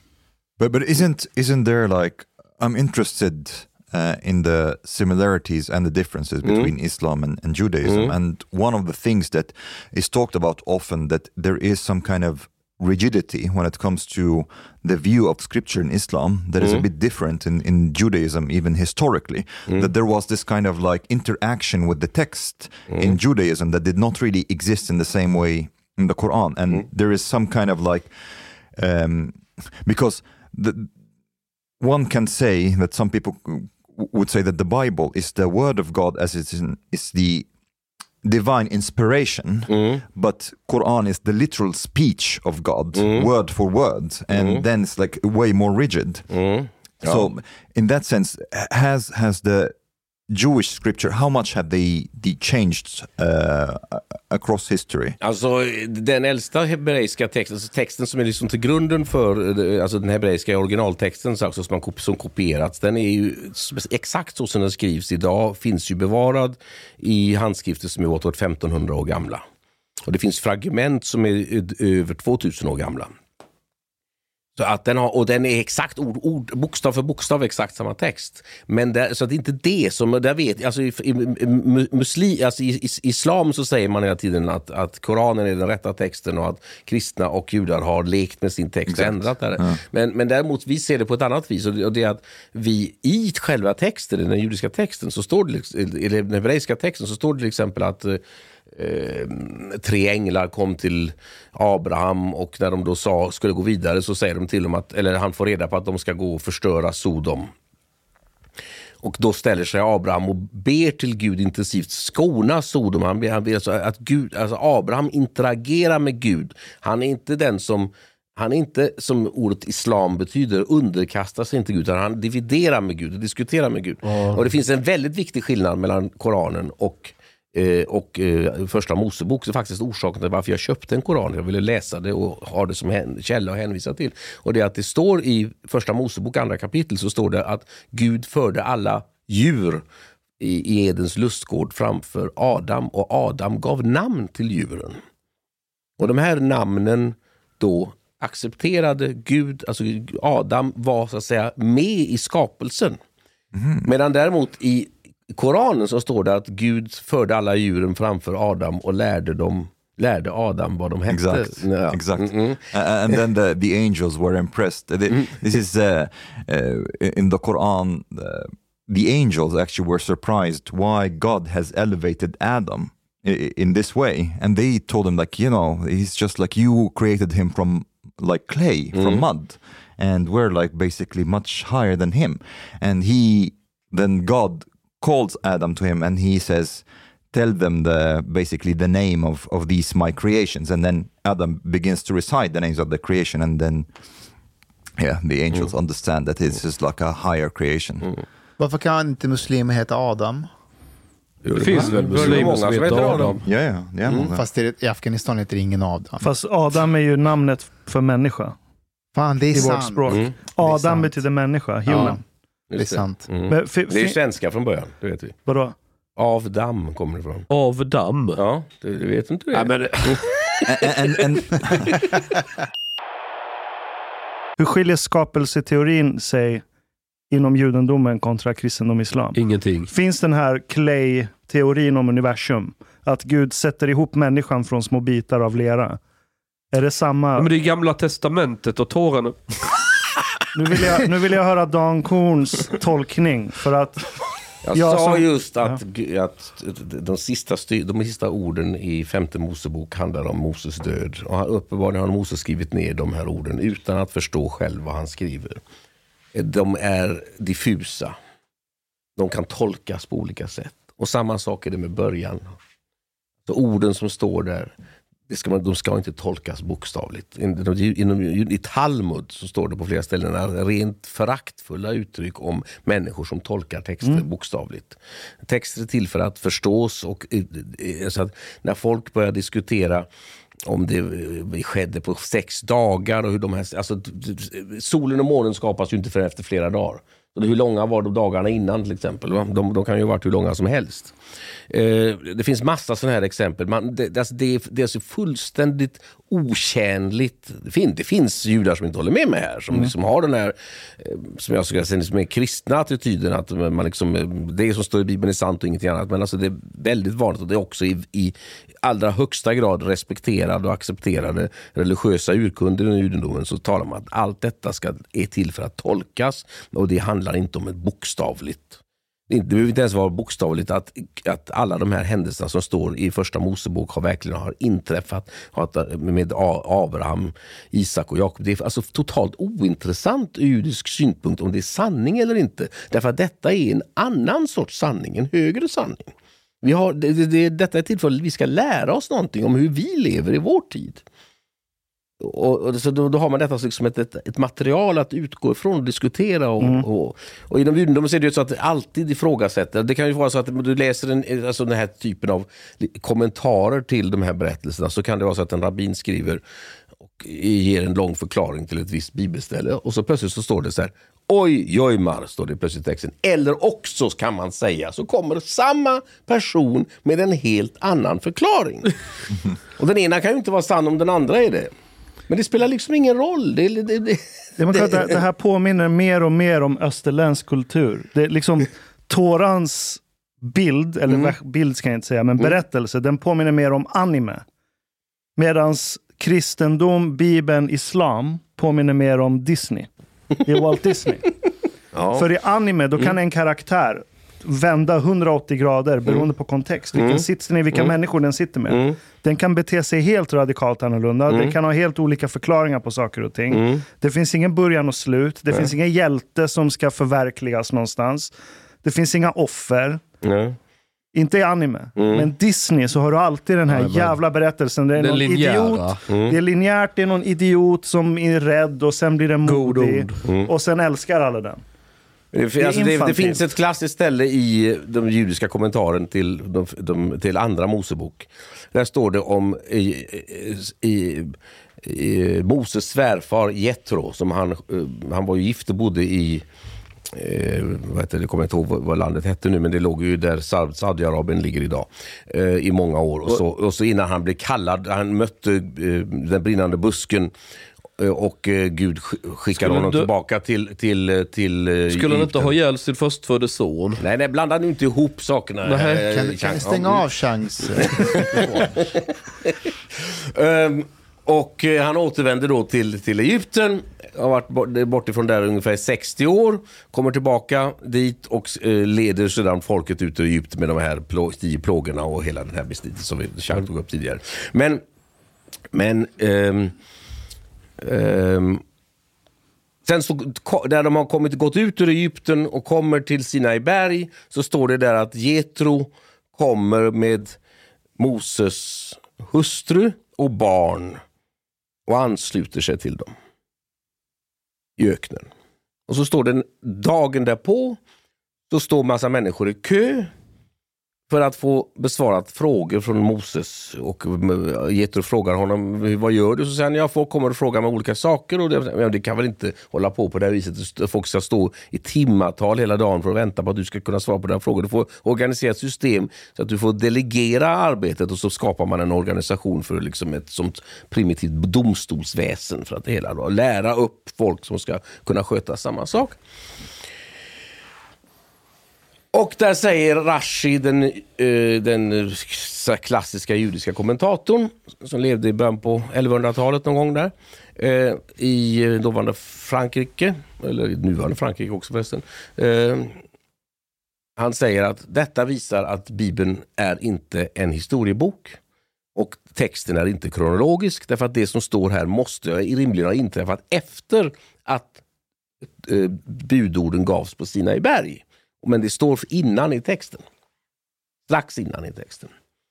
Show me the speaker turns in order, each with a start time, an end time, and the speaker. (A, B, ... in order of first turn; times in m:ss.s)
0:00.6-0:28.1 A
0:06.4-0:06.7 B
0:07.8-0:08.1 B
0:16.6-0:16.8 B
0:19.7-0:19.9 B
0:22.9-0:23.2 B
0:28.7-0:30.9 A
0:31.8-0:37.5 A
0:38.2-0:46.3 A
0:39.7-0:40.0 B
0:42.9-0:43.3 B
0:44.3-0:44.6 B
0:46.3-0:47.3 B
0:47.0-0:49.7 A
0:50.3-0:55.2 A
0:55.2-1:09.4 B
1:10.1-1:13.1 B
1:14.6-1:38.2 B
1:28.9-1:29.8 A
1:38.7-1:47.5 B
1:49.0-2:19.8 B
2:04.0-2:04.4 C
2:20.4-2:25.0 B
2:26.0-2:33.0 B
2:33.5-2:33.9 A
2:33.8-2:42.6 B
2:41.1-3:13.9 A
2:58.9-2:59.2 B
3:15.0-3:18.1 A
3:18.6-3:20.5 D
3:21.4-3:23.4 B
3:21.6-3:23.4 C
3:21.7-3:22.5 A
3:23.2-3:24.4 A
3:24.0-3:24.3 B
3:24.3-3:26.3 D
3:26.2-3:28.6 E
3:29.1-3:31.1 D
3:29.5-3:32.2 E
3:30.1-3:30.3 B
3:31.9-3:32.2 D
3:32.7-3:35.4 B
3:32.7-3:33.3 D
3:33.5-3:34.2 E
3:35.4-3:35.8 E
3:36.2-3:37.5 B
3:37.5-3:38.4 C
3:38.4-3:41.7 B
3:39.5-3:40.2 C
3:40.7-3:42.0 A
3:44.6-3:46.6 E
3:47.3-3:49.4 E
3:49.3-3:49.9 C
3:49.9-3:56.0 E
3:56.7-3:57.5 E
3:57.4-3:59.4 C
4:00.5-4:04.0 E
4:04.6-4:15.6 B
4:04.7-4:05.8 E
4:16.3-4:18.1 B
4:19.2-4:22.5 B
4:23.4-4:24.7 B
4:25.3-4:40.0 B
4:40.6-4:51.1 B
4:51.7-5:41.0 B
5:42.2-5:56.4 B
5:46.6-5:46.8 E
5:57.0-6:08.9 B
6:09.8-6:11.7 B
6:12.3-6:15.2 B
6:14.6-6:24.4 E
6:21.1-6:21.3 B
6:25.4-6:29.9 E
6:30.4-6:31.3 E
6:31.9-6:32.3 B
6:32.1-6:50.0 E
6:36.9-6:37.9 B
6:38.7-6:39.0 B
6:41.3-6:41.6 B
6:43.5-6:43.8 B
6:50.2-6:50.6 B
6:51.1-7:01.6 E
6:52.0-6:52.3 B
6:53.7-6:54.2 C
6:55.0-6:56.0 C
6:56.1-6:56.4 B
6:59.4-7:00.1 C
7:00.2-7:00.5 B
7:02.3-7:16.4 B
7:02.6-7:03.4 E
7:17.1-7:27.3 B
7:28.0-7:32.5 B
7:29.6-7:30.1 C
7:31.9-7:34.0 C
7:34.0-7:37.0 B
7:35.6-7:36.1 C
7:36.0-7:38.5 D
7:37.8-7:54.8 B
7:55.7-7:56.7 B
7:57.8-7:58.6 B
7:59.8-8:07.4 B
8:08.0-8:11.0 B
8:11.9-8:13.1 B
8:14.8-8:15.3 B
8:15.9-8:17.8 B
8:18.5-8:20.1 B
8:21.1-8:46.2 B
8:49.1-9:03.0 B
9:04.2-9:08.4 B
9:09.0-9:14.8 B
9:15.6-9:20.0 B
9:21.1-9:22.1 B